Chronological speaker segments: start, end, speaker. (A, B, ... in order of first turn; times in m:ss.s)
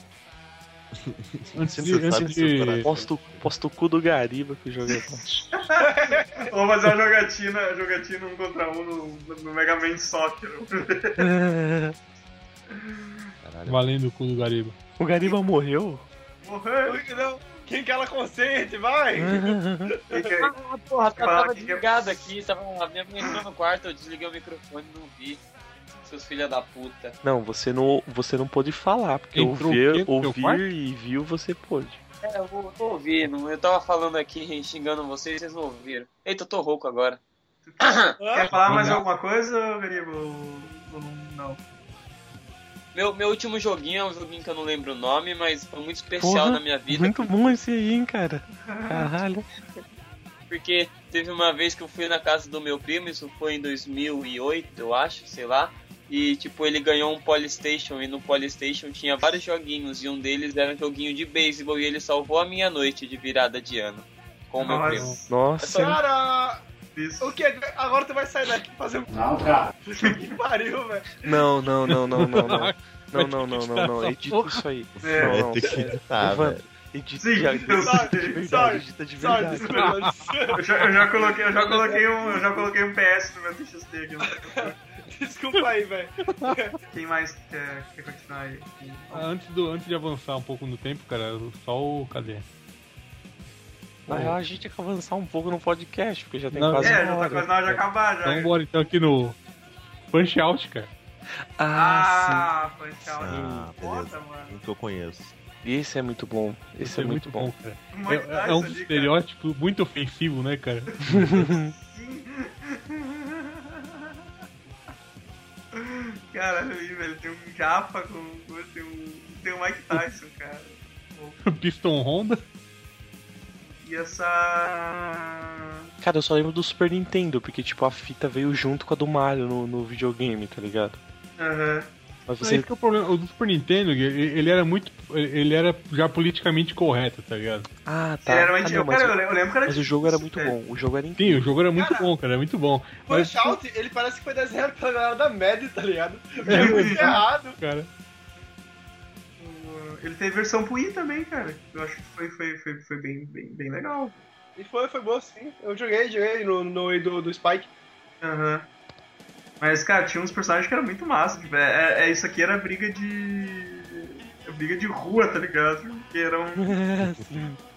0:00.9-0:03.5 A
0:01.5-0:02.9 B
0:02.8-0:05.4 C
0:04.8-0:11.2 D
0:05.8-0:06.5 E
0:11.2-0:12.0 C
0:12.7-0:13.2 D
0:13.4-0:13.8 A
0:13.7-0:14.7 B
0:15.0-0:16.0 C
0:16.4-0:17.3 D
0:16.8-0:20.3 E
0:19.1-0:19.9 C
0:20.1-0:20.5 D
0:20.4-0:25.4 F
0:21.2-0:21.8 D
0:26.0-0:27.1 F
0:27.2-0:32.0 C
0:29.3-0:30.6 B
0:32.2-0:37.2 F
0:37.6-0:41.6 D
0:37.8-0:38.1 F
0:38.2-0:38.7 E
0:38.6-0:39.0 B
0:42.9-0:47.3 F
0:46.2-0:49.4 C
0:48.7-0:49.1 D
0:50.5-1:06.0 F
1:04.6-1:05.2 D
1:04.6-1:05.2 B
1:05.3-1:06.0 C
1:05.7-1:06.6 E
1:06.9-1:07.4 D
1:07.2-1:11.4 E
1:11.2-1:20.0 C
1:12.1-1:14.6 B
1:15.0-1:16.6 A
1:15.0-1:15.4 D
1:17.2-1:18.6 D
1:17.8-1:22.7 E
1:19.9-1:20.3 B
1:20.5-1:24.8 D
1:24.3-1:26.7 E
1:26.9-1:29.3 D
1:29.1-1:32.4 B
1:34.1-1:37.5 C
1:34.1-1:34.3 B
1:36.5-1:37.0 B
1:36.8-1:38.5 D
1:37.7-1:39.4 B
1:40.1-1:40.9 B
1:41.6-1:42.5 C
1:41.7-1:44.6 D
1:43.2-1:45.3 A
1:43.3-1:43.7 C
1:45.6-1:47.5 C
1:46.8-1:51.2 B
1:47.9-1:49.1 D
1:51.1-1:54.2 D
1:51.3-1:51.7 C
1:55.7-2:01.4 D
2:01.4-2:02.4 B
2:03.8-2:05.9 D
2:06.0-2:11.0 C
2:11.4-2:11.9 D
2:12.3-2:12.7 C
2:12.4-2:17.7 B
2:17.8-2:21.4 C
2:18.2-2:20.6 D
2:21.2-2:23.6 B
2:21.7-2:22.1 E
2:23.0-2:27.6 E
2:26.5-2:27.9 B
2:26.5-2:27.1 D
2:29.4-2:34.2 D
2:34.6-2:37.7 E
2:38.2-2:38.6 D
2:39.6-2:46.8 D
2:46.6-2:47.6 C